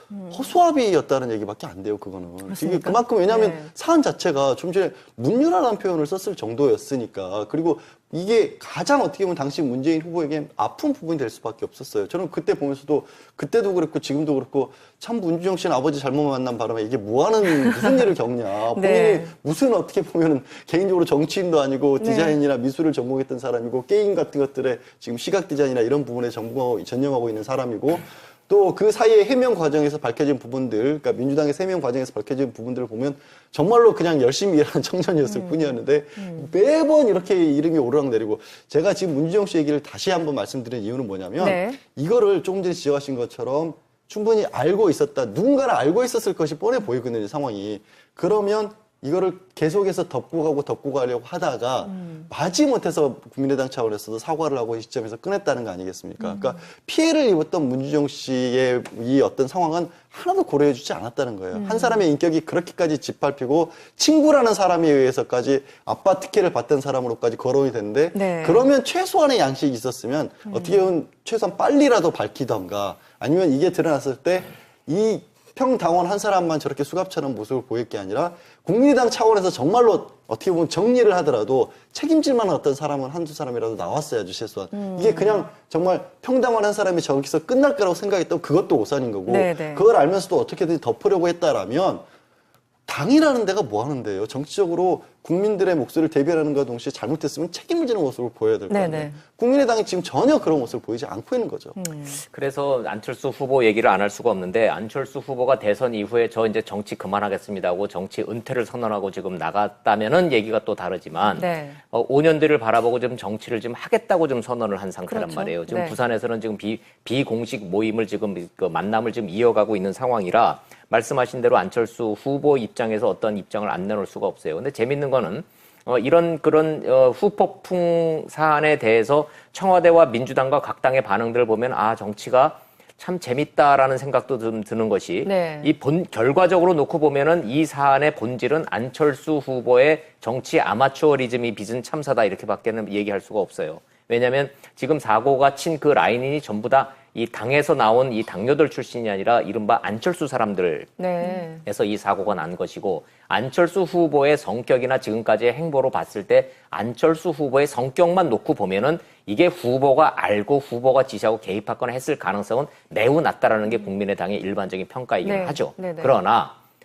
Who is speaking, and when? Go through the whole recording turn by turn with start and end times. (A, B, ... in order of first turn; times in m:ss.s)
0:00.1-0:00.4 A
0:00.3-1:32.0 B
0:02.5-0:03.7 A
0:18.7-0:19.3 A
0:22.0-0:22.4 A
0:35.3-0:36.5 A
0:41.4-0:41.8 A
0:51.9-0:52.3 A
0:56.2-0:56.6 A
1:01.5-1:02.0 A
1:08.1-1:08.6 A
1:10.5-1:10.8 A
1:24.7-1:25.5 A
1:29.3-1:29.8 A
1:32.9-1:41.8 B
1:38.7-1:39.2 A
1:41.8-1:42.2 A
1:42.3-2:31.0 C
1:51.3-1:51.8 A
1:55.1-1:56.0 A
2:15.2-2:15.7 A
2:31.0-2:31.6 A
2:31.6-2:46.6 C
2:45.2-2:46.1 A